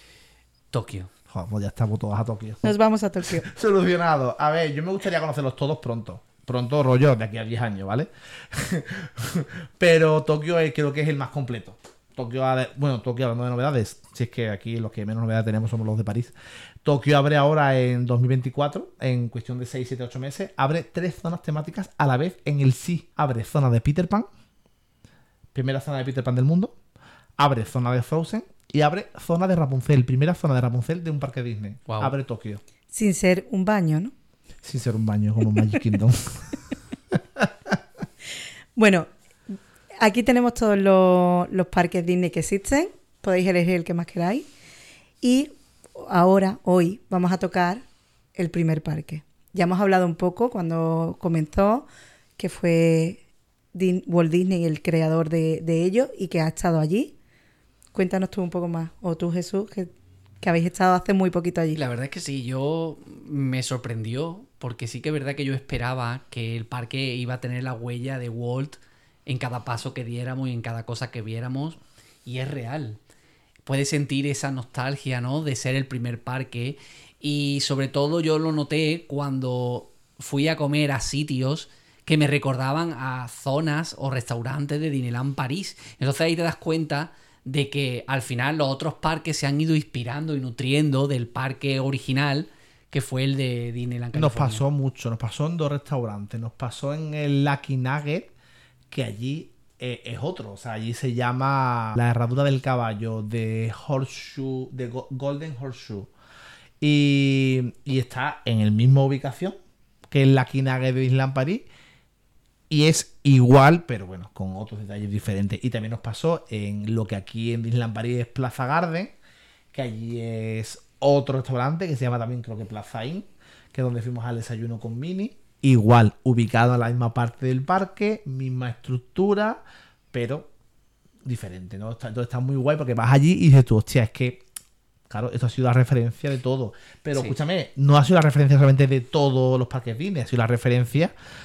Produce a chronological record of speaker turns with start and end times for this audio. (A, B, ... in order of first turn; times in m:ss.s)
0:00.7-0:01.1 A
0:01.3-0:24.3 B
0:02.6-0:03.5 C
0:25.5-0:26.8 B
0:27.4-0:32.6 B
0:31.9-0:32.2 A
0:32.9-0:34.1 C
0:34.6-0:36.6 B
0:37.4-0:37.8 B
0:38.8-0:44.5 C
0:45.2-0:51.9 C
0:52.4-0:53.2 C
0:53.7-0:57.1 C
0:57.9-0:59.9 C
1:00.4-1:01.8 C
1:01.8-1:13.0 A
1:13.6-1:34.6 A
1:34.1-1:38.3 B
1:38.9-1:46.1 B
1:46.8-1:49.6 B
1:50.1-1:51.6 B
1:52.7-1:59.2 B
1:59.7-2:10.5 B
2:11.2-2:14.4 B
2:15.1-2:21.1 B